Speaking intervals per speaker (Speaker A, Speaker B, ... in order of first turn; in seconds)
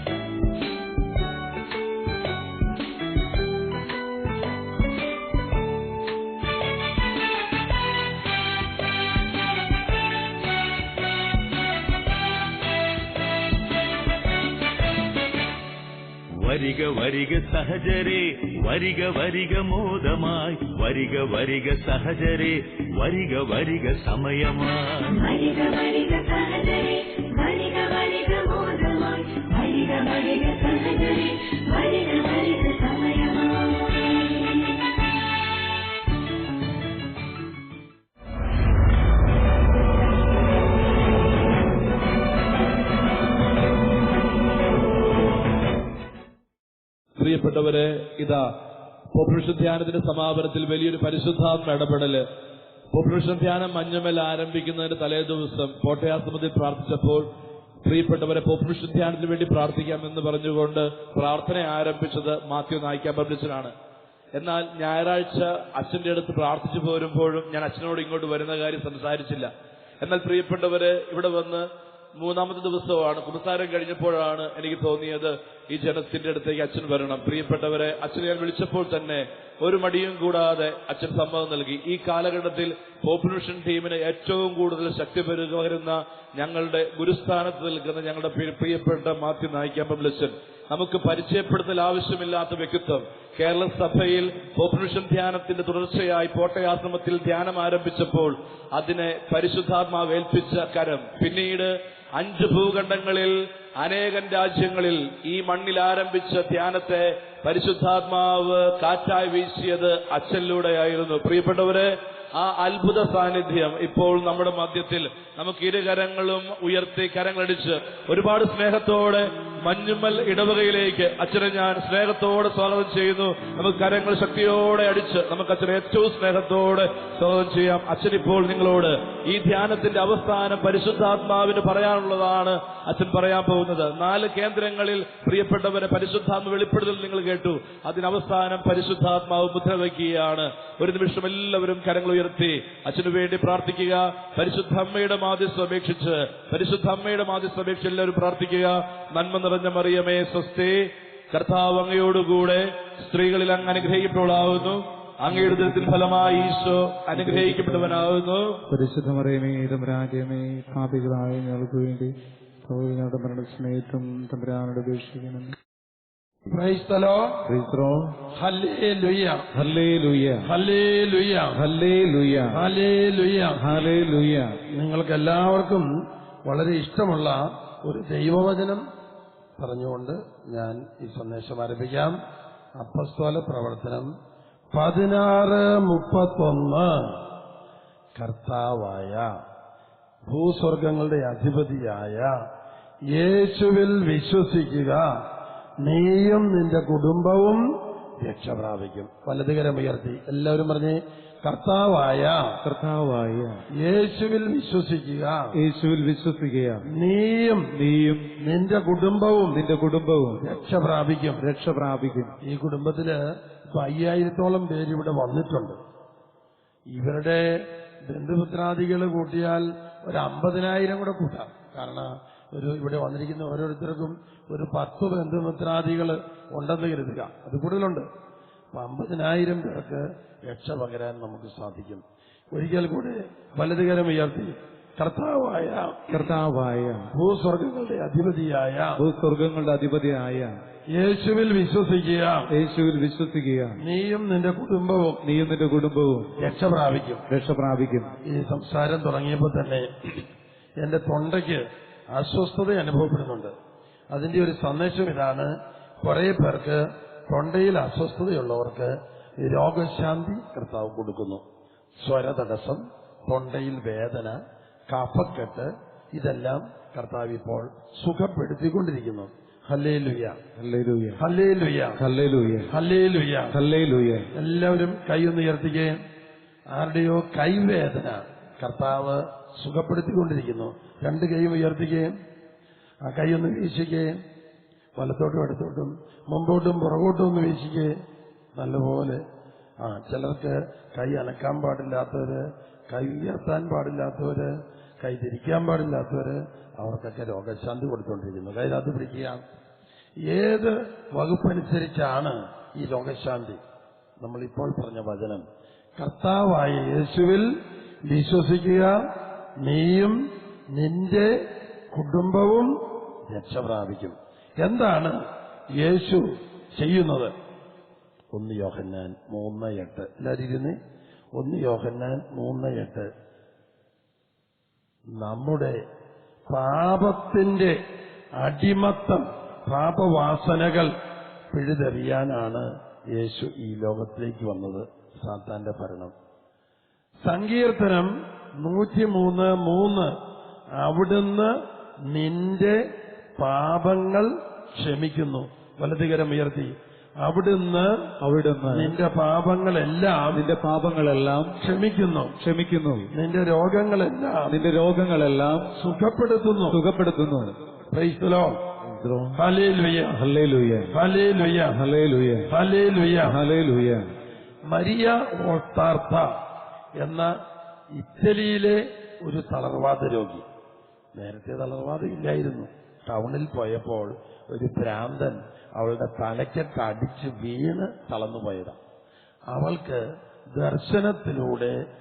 Speaker A: 16.4-25.0
Speaker B: 25.1-34.8
Speaker C: 47.2-48.4, 49.1-52.2, 52.9-57.3, 57.9-63.7, 64.3-71.7, 72.2-158.6
Speaker D: 158.7-160.1, 167.5-168.1, 169.6-170.4, 171.7-172.5, 173.7-174.4, 202.7-203.4, 205.7-206.8, 207.8-208.3, 209.5-210.4, 211.4-212.3, 236.1-237.1, 239.0-240.1, 242.6-243.7, 245.3-246.3, 247.3-248.1, 270.6-271.2, 272.0-272.7, 273.5-274.3, 348.2-348.9, 350.4-351.5, 352.4-353.1, 354.5-355.6, 356.7-357.4, 358.9-359.4, 360.2-360.9, 361.8-362.5, 363.3-364.0
Speaker E: 166.5-167.4, 168.3-169.5, 170.4-171.6, 172.5-173.7, 174.7-175.9, 176.4-178.8, 179.6-182.2, 182.8-184.1, 184.7-187.2, 188.2-189.3, 190.3-192.3, 193.1-195.2, 195.8-202.6, 203.8-205.6, 206.8-207.7, 208.4-209.7, 210.4-211.4, 212.4-213.2, 213.7-215.8, 216.9-228.1, 228.7-236.3, 237.1-239.1, 240.9-242.5, 243.8-245.2, 246.4-247.2, 248.2-250.2, 250.8-253.5, 254.1-261.4, 262.0-270.4, 271.2-272.1, 272.7-273.6, 274.3-276.0, 276.7-282.1, 283.0-284.1, 285.0-287.9, 288.6-289.2, 289.8-299.4, 300.3-303.6, 304.2-305.4, 306.0-307.5, 308.1-309.0, 309.6-310.2, 310.7-312.8, 313.3-315.2, 315.8-317.3, 318.3-320.8, 321.4-323.1, 325.2-325.8, 326.5-327.8, 328.4-330.9, 331.5-336.1, 337.2-340.1, 340.8-341.5, 342.1-342.8, 343.4-347.9, 348.7-350.5, 351.6-352.4, 353.1-354.6, 355.7-356.8, 357.9-358.6, 359.4-360.2, 360.9-361.8, 362.5-363.4, 364.7-366.3, 367.0-367.3, 367.9-370.5, 371.1-378.8, 379.5-380.0, 380.5-381.7